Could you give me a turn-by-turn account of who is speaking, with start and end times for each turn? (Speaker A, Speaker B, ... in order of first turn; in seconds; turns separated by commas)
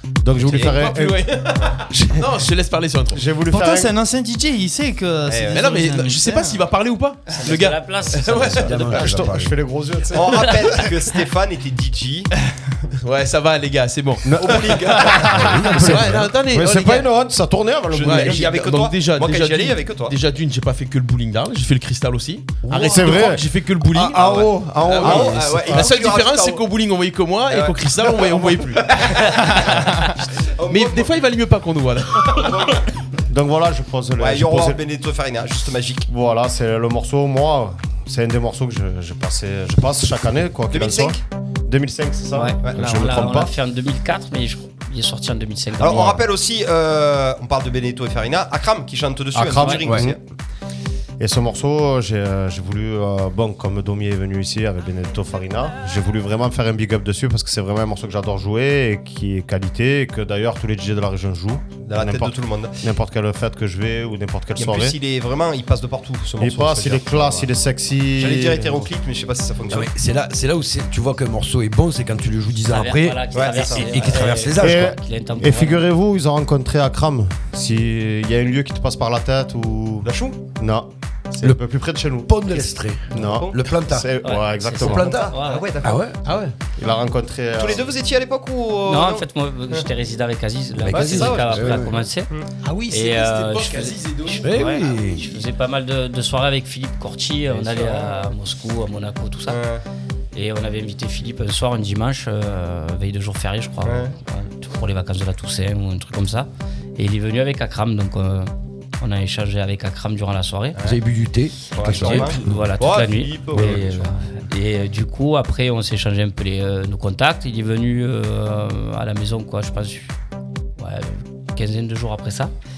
Speaker A: 0.2-2.2, Speaker B: 0.4-3.2, Speaker C: 0.5-0.8, Speaker A: 3.1-4.0, Speaker D: 3.5-6.6, Speaker C: 5.3-5.7, Speaker B: 5.5-9.0, Speaker E: 7.3-8.9, Speaker F: 8.4-9.6, Speaker A: 8.8-10.8, Speaker C: 10.1-12.3, Speaker B: 13.0-17.1, Speaker A: 14.2-18.5, Speaker C: 14.5-15.2, Speaker F: 15.3-16.2, Speaker C: 17.9-20.2, Speaker B: 18.0-30.2, Speaker A: 22.7-25.9, Speaker C: 24.1-26.6, Speaker C: 27.5-31.2, Speaker B: 30.7-32.8, Speaker C: 32.2-32.9, Speaker A: 33.3-34.8, Speaker C: 34.2-36.1, Speaker A: 36.1-43.5, Speaker C: 40.7-41.2, Speaker E: 42.3-46.2, Speaker C: 45.8-50.2, Speaker A: 49.3-50.2, Speaker E: 49.6-49.9, Speaker A: 51.2-65.0, Speaker C: 61.9-62.8, Speaker C: 64.6-67.5, Speaker A: 66.4-68.9, Speaker C: 68.2-69.9, Speaker F: 69.7-75.0, Speaker E: 72.7-75.8, Speaker C: 73.3-74.5, Speaker A: 74.6-82.4, Speaker C: 80.0-80.4, Speaker F: 82.3-84.1, Speaker A: 83.1-85.2, Speaker C: 83.2-83.6, Speaker E: 84.2-85.6, Speaker F: 84.8-86.2, Speaker C: 84.8-86.0, Speaker B: 86.2-86.5, Speaker A: 86.8-87.9, Speaker C: 87.6-89.9, Speaker E: 88.9-92.3, Speaker F: 90.8-92.0, Speaker C: 90.9-92.5, Speaker B: 92.6-95.0, Speaker E: 92.9-99.6, Speaker F: 94.4-95.3, Speaker C: 99.5-99.8, Speaker E: 100.3-110.8, Speaker C: 103.8-104.1, Speaker F: 110.8-112.8, Speaker C: 111.7-114.1, Speaker E: 111.8-120.1, Speaker F: 113.5-113.9, Speaker E: 120.8-122.5